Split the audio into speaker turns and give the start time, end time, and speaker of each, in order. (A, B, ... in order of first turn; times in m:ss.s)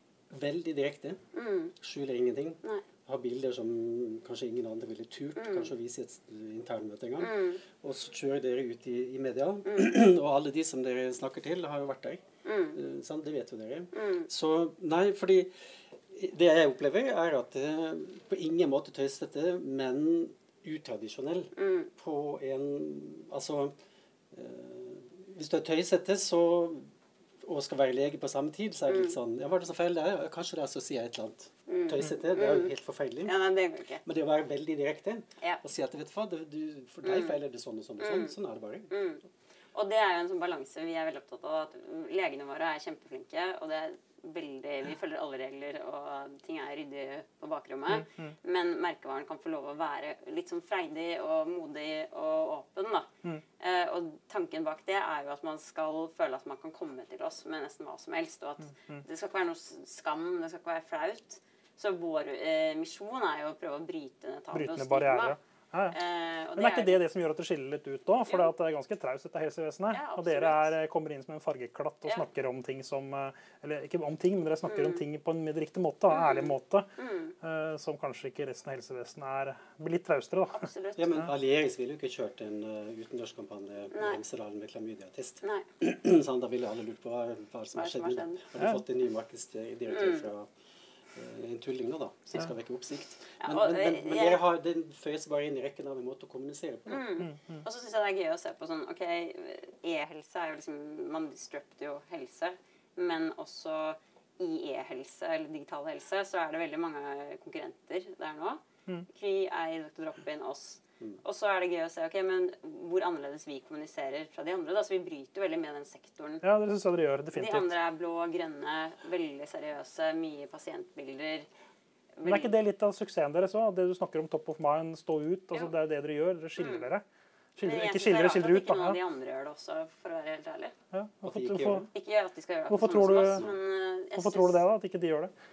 0:00.3-0:01.2 A
0:01.3-0:01.7 B
0:01.8-0:23.7 A
0:05.4-0:05.7 B
0:07.2-0:07.6 B
0:12.4-0:12.8 B
0:13.9-0:14.3 B
0:21.6-0:21.9 B
0:24.3-0:26.9 A
0:27.4-0:33.3 A
0:28.9-0:29.1 B
0:31.7-0:32.7 B
0:33.2-0:34.0 B
0:34.0-0:38.9 A
0:37.0-0:37.4 B
0:38.0-0:38.3 B
0:38.9-0:39.2 B
0:39.7-1:05.4 B
0:47.9-0:48.3 C
0:58.8-0:59.0 C
1:04.5-1:06.0 C
1:05.9-1:07.0 B
1:06.6-1:16.9 C
1:09.9-1:10.7 B
1:14.7-1:15.0 B
1:16.1-1:17.3 B
1:17.4-1:20.7 C
1:20.5-1:21.2 B
1:21.0-1:30.5 A
1:23.9-1:24.2 B
1:27.7-1:28.4 B
1:29.9-1:30.3 B
1:31.1-1:37.2 A
1:33.4-1:34.4 B
1:36.9-1:56.4 B
1:37.2-1:37.6 C
1:56.4-1:57.7 C
1:57.3-2:01.5 B
2:02.2-2:02.5 B
2:02.2-2:07.0 C
2:06.6-2:06.9 B
2:07.6-2:09.0 C
2:07.6-2:10.7 B
2:10.9-2:11.9 C
2:11.2-2:11.9 A
2:11.9-2:14.6 B
2:12.7-2:13.5 C
2:14.2-2:15.3 C